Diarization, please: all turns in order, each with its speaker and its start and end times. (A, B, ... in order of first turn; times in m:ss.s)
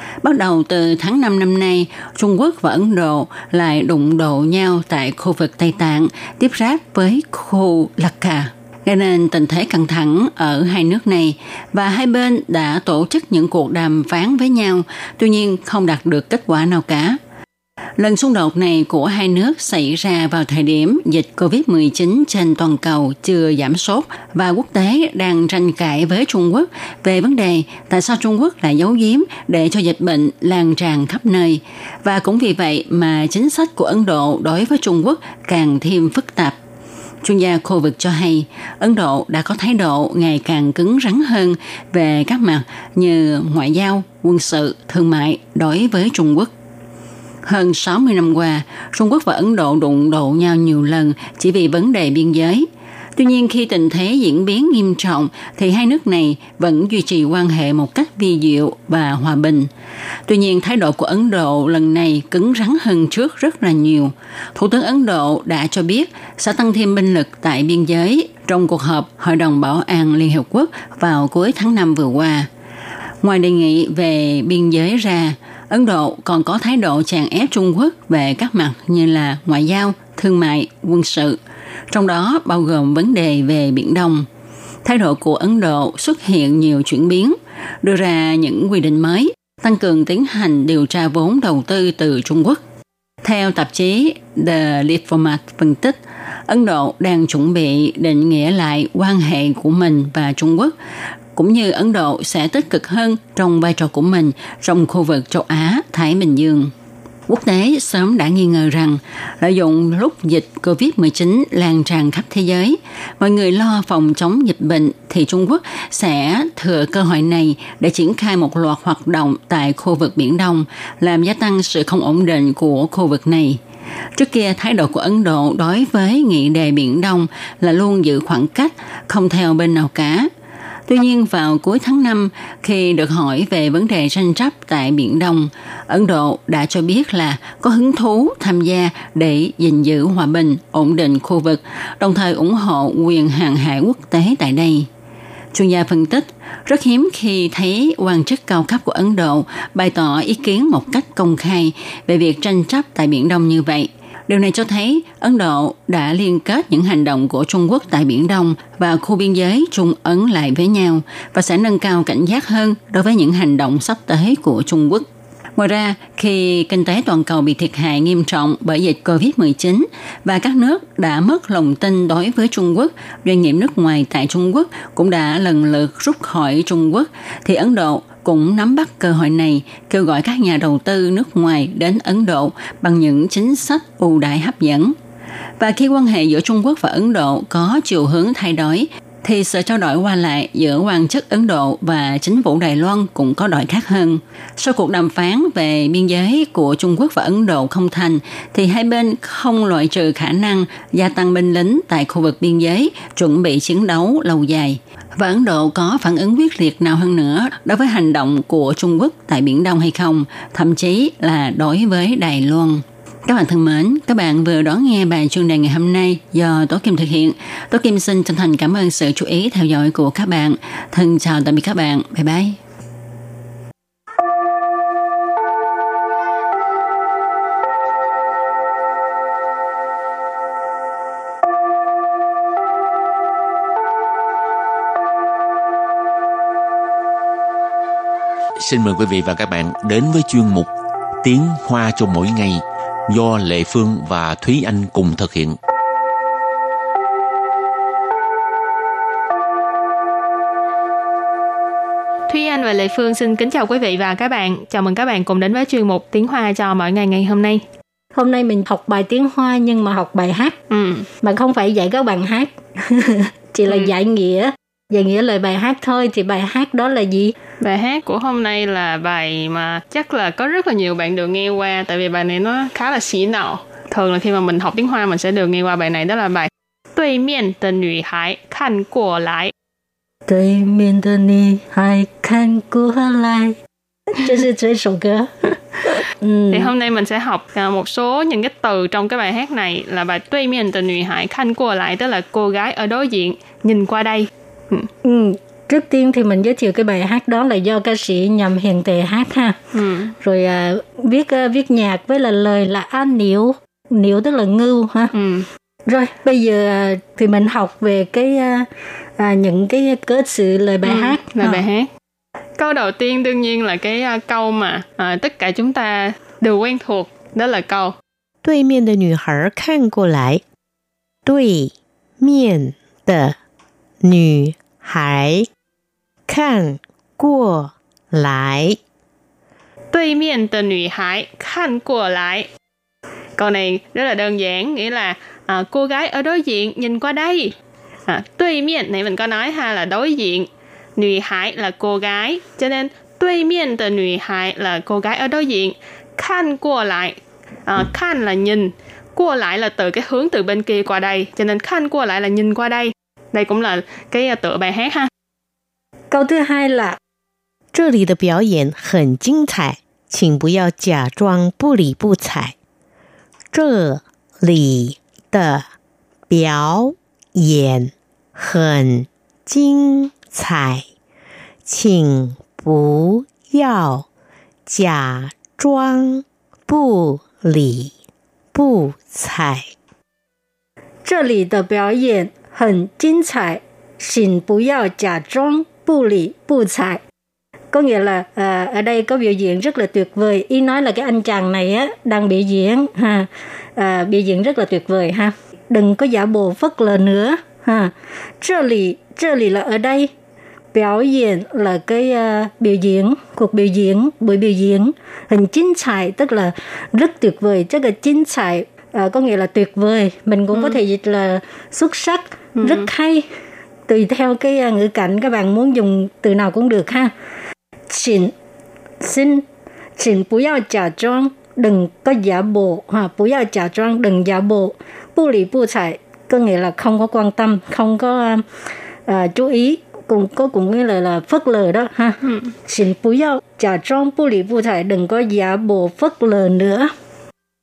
0:00.2-0:17.2 A
0:18.0-0:36.6 A
0:37.2-0:46.5 A
0:47.4-0:59.7 A
1:00.3-1:12.5 A
1:13.2-1:21.4 A
1:21.9-1:24.3 A
1:24.8-1:32.6 A
1:33.2-1:40.7 A
1:41.4-1:46.7 A
1:47.3-2:03.6 A
2:04.2-2:10.3 A
2:10.9-2:24.9 A
2:25.5-3:05.0 A
3:05.6-3:42.6 A
3:58.6-4:00.7 B
4:01.2-4:05.6 B
4:12.3-4:17.6 C
4:18.2-4:20.6 D
4:20.7-4:21.1 C
4:21.2-4:27.4 D
4:27.6-4:39.5 C
4:40.3-4:43.6 D
4:44.2-4:45.3 D
4:46.2-4:46.7 D
4:46.5-4:54.9 C
4:55.0-4:59.6 D
4:59.7-5:00.2 C
5:00.2-5:05.1 D
5:05.1-5:05.5 C
5:05.9-5:11.2 D
5:10.8-5:11.9 C
5:12.6-5:18.0 C
5:18.4-5:20.4 E
5:21.3-5:23.4 E
5:24.0-5:25.5 E
5:26.3-5:28.8 E
5:29.9-5:32.5 C
5:33.4-5:37.6 C
5:38.1-5:55.1 C
5:56.1-5:57.0 D
5:57.7-6:02.6 E
6:03.5-6:05.7 E
6:06.3-6:10.9 E
6:11.7-6:14.1 E
6:14.7-6:17.9 E
6:18.5-6:19.7 E
6:21.0-6:27.0 D
6:27.7-6:40.1 D
6:40.7-6:53.3 D
6:50.5-6:50.8 C
6:52.6-6:52.9 C
6:53.9-6:57.1 D
6:57.9-6:58.3 D
6:59.0-6:59.4 D
7:00.0-7:08.4 D
7:09.1-7:16.9 D